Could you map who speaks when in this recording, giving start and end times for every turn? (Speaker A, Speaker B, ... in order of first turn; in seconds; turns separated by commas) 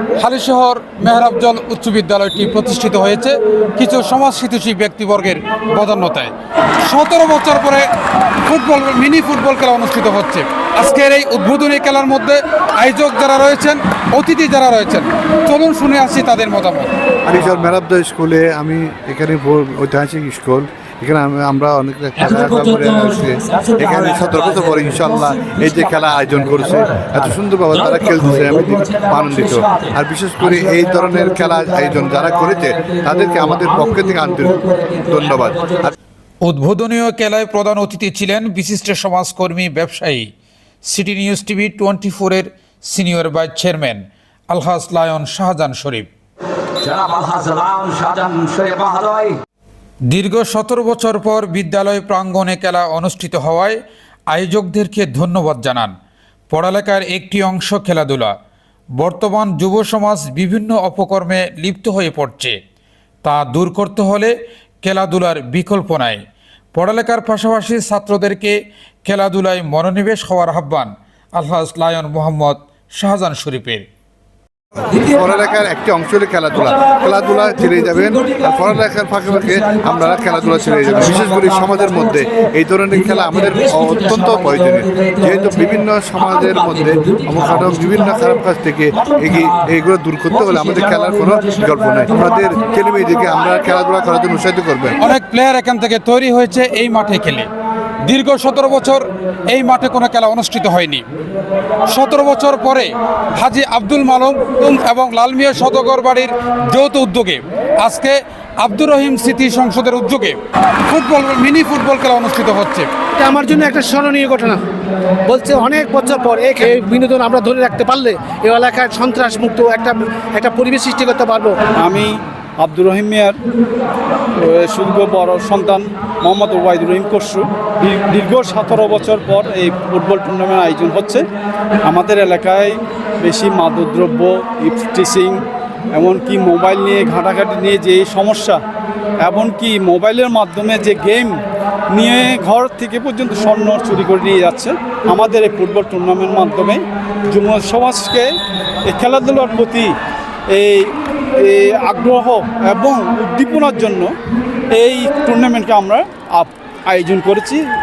Speaker A: 0.2-6.3, Speaker A: 6.8-7.9, Speaker A: 8.5-16.9, Speaker B: 17.2-35.9, Speaker A: 36.4-40.3, Speaker A: 40.9-46.1, Speaker C: 47.1-49.1, Speaker A: 50.1-53.8, Speaker A: 54.3-55.9, Speaker A: 56.5-58.3, Speaker A: 59.0-62.6, Speaker A: 63.2-66.2, Speaker A: 66.7-68.5, Speaker A: 69.0-73.8, Speaker B: 75.0-95.0, Speaker A: 95.0-97.5, Speaker A: 98.0-101.0, Speaker A: 101.9-112.9, Speaker D: 113.1-114.6, Speaker D: 115.3-121.5, Speaker E: 121.8-123.3, Speaker E: 124.4-131.2, Speaker E: 131.9-135.4, Speaker E: 135.9-138.6, Speaker E: 139.2-141.3, Speaker E: 141.9-148.3, Speaker E: 148.9-149.9, Speaker E: 150.5-150.9, Speaker E: 151.4-154.1, Speaker E: 154.7-157.6